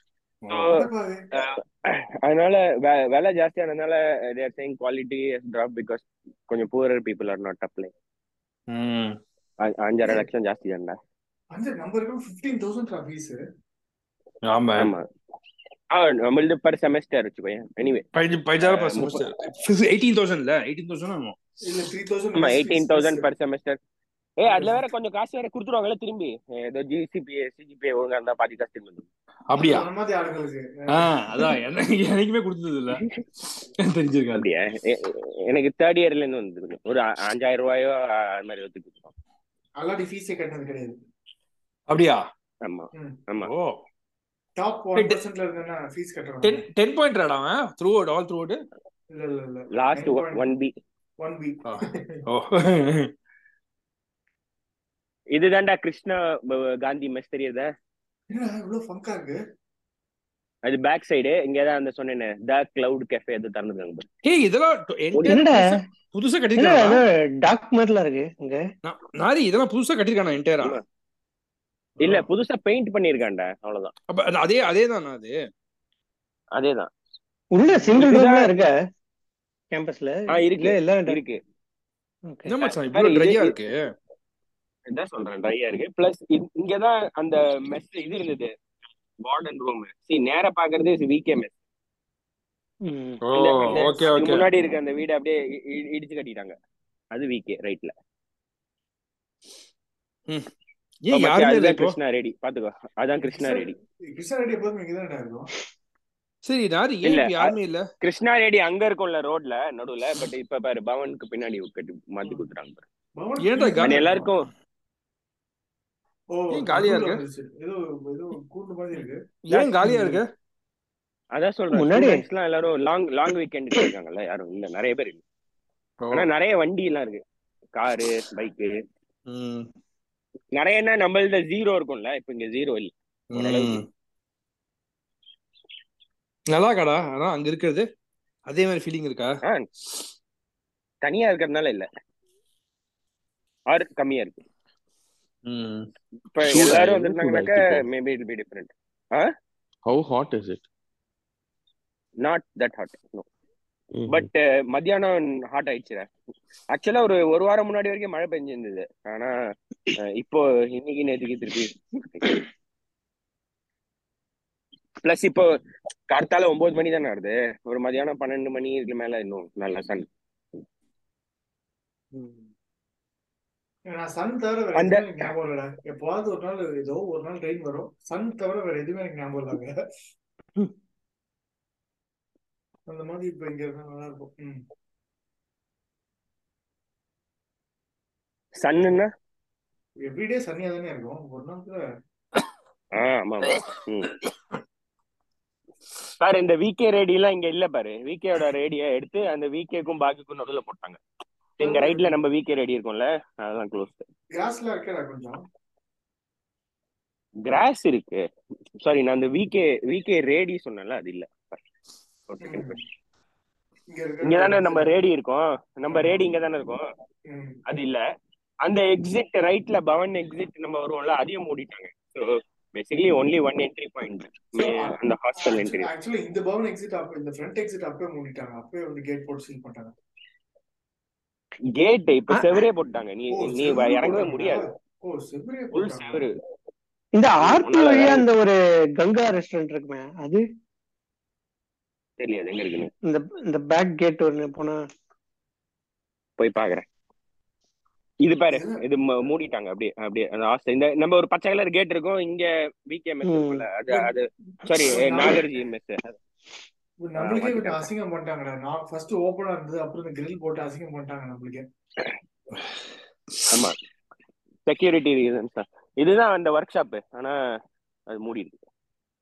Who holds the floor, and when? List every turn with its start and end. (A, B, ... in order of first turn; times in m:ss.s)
0:00.5-0:07.9 A
0:00.5-0:01.2 B
0:08.7-0:09.2 C
0:09.6-0:11.0 A
0:11.5-0:13.4 B
0:14.5-0:14.9 C
0:14.8-0:15.0 A
0:15.9-0:18.1 A
0:18.1-0:21.4 C
0:18.6-0:19.2 A
0:21.6-0:23.3 B
0:22.4-0:23.8 A
0:24.4-0:29.1 A
0:24.4-0:24.8 B
0:29.5-0:29.9 C
0:29.6-0:31.5 B
0:30.9-0:33.0 C
0:33.8-0:34.5 C
0:34.4-0:39.1 A
0:39.8-0:41.0 B
0:41.9-0:42.2 C
0:42.6-0:43.5 A
0:43.4-0:43.8 C
0:44.6-0:46.6 B
0:46.4-0:48.6 C
0:49.1-0:50.5 B
0:49.8-0:50.7 A
0:51.2-0:52.2 B
0:51.7-0:53.1 C
0:55.3-0:57.7 A
0:58.3-0:59.4 B
1:00.6-1:04.1 A
1:04.2-1:07.0 C
1:05.3-1:05.8 D
1:06.6-1:08.6 D
1:08.8-1:10.8 C
1:12.0-1:13.9 A
1:14.1-1:15.4 C
1:16.6-1:16.9 A
1:17.5-1:18.7 D
1:18.0-1:18.5 A
1:19.7-1:21.2 D
1:20.3-1:21.4 A
1:22.5-1:23.9 C
1:22.6-1:23.6 A
1:24.9-1:28.5 A
1:29.2-1:31.6 A
1:32.9-1:33.2 D
1:33.3-1:34.5 C
1:33.4-1:36.6 A
1:37.1-1:37.9 A
1:41.0-1:42.0 C
1:41.1-1:43.8 A
1:43.2-1:45.5 B
1:46.5-1:47.9 C
1:47.0-1:52.8 A
1:53.2-1:54.2 B
1:53.4-1:54.2 C
1:53.8-1:54.5 A
1:56.3-1:59.2 B
1:56.5-1:57.2 C
1:59.5-2:00.3 C
1:59.9-2:00.2 D
2:01.4-2:05.2 A
2:01.7-2:02.2 D
2:06.0-2:06.3 C
2:06.1-2:07.2 A
2:07.8-2:08.8 A
2:09.3-2:09.7 C
2:10.6-2:13.8 A
2:13.3-2:13.9 C
2:16.5-2:17.9 C
2:18.5-2:19.4 C
2:21.0-2:21.9 A
2:23.7-2:24.4 A
2:25.5-2:25.9 C
2:26.3-2:29.3 A
2:26.5-2:27.8 E
2:29.9-2:30.6 E
2:32.2-2:33.3 A
2:33.9-2:34.3 E
2:34.1-2:36.1 A
2:36.7-2:39.3 A
2:40.0-2:42.4 A
2:45.0-2:45.5 A
2:46.1-2:50.1 A
2:53.9-2:59.7 B
2:54.8-2:55.3 A
3:02.9-3:04.6 B
3:08.6-3:09.1 A
3:10.0-3:11.8 B
3:13.0-3:14.1 A
3:16.2-3:21.0 A
3:21.6-3:24.0 A
3:21.6-3:22.2 B
3:24.3-3:25.4 B
3:27.4-3:28.2 A
3:28.8-3:31.6 A
3:32.3-3:32.8 A
3:32.4-3:32.8 B
3:33.9-3:34.9 B
3:34.2-3:36.9 A
3:35.9-3:36.2 B
3:37.3-3:37.6 B
3:37.7-3:38.0 A
3:38.6-3:45.9 A
3:44.6-3:50.0 B
3:51.8-3:54.7 A
3:52.3-3:52.6 D
3:53.3-3:56.3 B
3:55.7-3:56.3 A
3:57.2-4:00.4 D
3:57.4-3:58.3 A
4:02.2-4:02.9 A
4:03.0-4:04.8 D
4:06.4-4:06.8 A
4:08.2-4:16.2 A
4:08.5-4:08.8 B
4:13.3-4:13.6 D
4:14.6-4:15.4 B
4:17.0-4:21.7 B
4:17.2-4:17.9 A
4:23.5-4:23.8 A
4:24.7-4:27.4 A
4:28.1-4:28.6 A